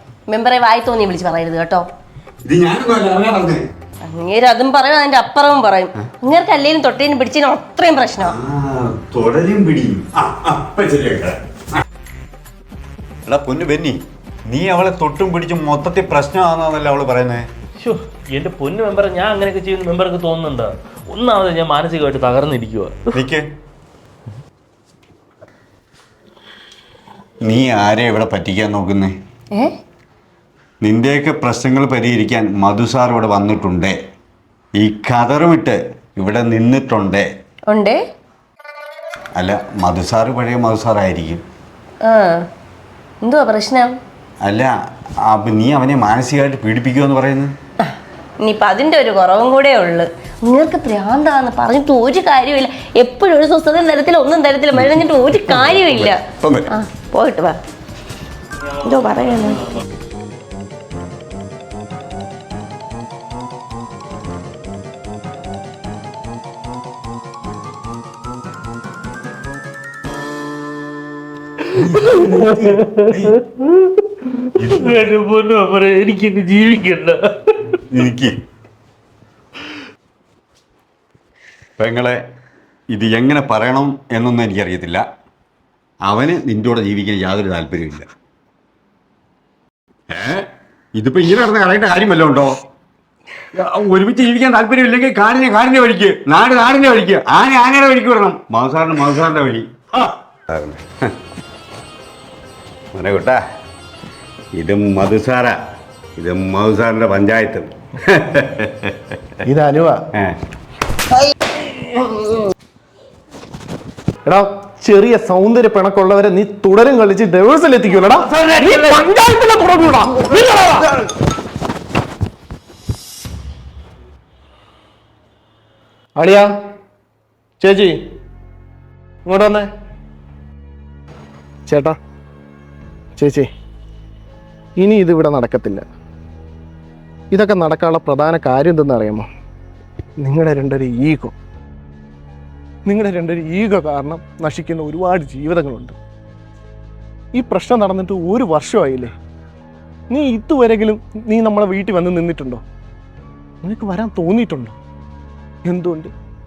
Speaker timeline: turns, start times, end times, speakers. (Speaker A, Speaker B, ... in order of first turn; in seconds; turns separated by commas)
Speaker A: 0.3-1.8, Speaker B: 2.4-3.7, Speaker A: 4.1-8.3, Speaker B: 8.2-11.4, Speaker B: 13.2-17.5, Speaker C: 17.8-23.2, Speaker B: 23.1-23.5, Speaker B: 27.4-29.1, Speaker B: 30.8-34.0, Speaker B: 34.8-37.3, Speaker A: 37.7-38.0, Speaker B: 39.4-41.4, Speaker A: 42.0-42.4, Speaker A: 43.2-43.9, Speaker B: 44.4-44.7, Speaker B: 45.3-47.5, Speaker A: 47.8-57.6, Speaker B: 55.5-56.7, Speaker A: 58.8-59.6, Speaker C: 71.7-77.8, Speaker B: 71.8-73.3, Speaker B: 74.6-75.1, Speaker B: 77.9-78.4, Speaker B: 81.8-82.2, Speaker B: 82.9-85.0, Speaker B: 86.0-88.1, Speaker B: 90.1-92.6, Speaker B: 93.5-101.1, Speaker B: 102.9-103.4, Speaker B: 104.5-105.6, Speaker B: 106.2-109.4, Speaker D: 109.4-110.0, Speaker D: 114.2-120.8, Speaker D: 126.2-126.5, Speaker D: 127.6-128.0, Speaker D: 129.2-129.7, Speaker D: 131.7-132.0, Speaker D: 133.2-133.5, Speaker D: 134.8-135.8, Speaker D: 137.3-139.3, Speaker D: 140.2-141.3, Speaker D: 142.8-145.9, Speaker D: 147.3-149.1, Speaker D: 150.1-152.6, Speaker D: 153.6-154.8, Speaker D: 155.6-156.1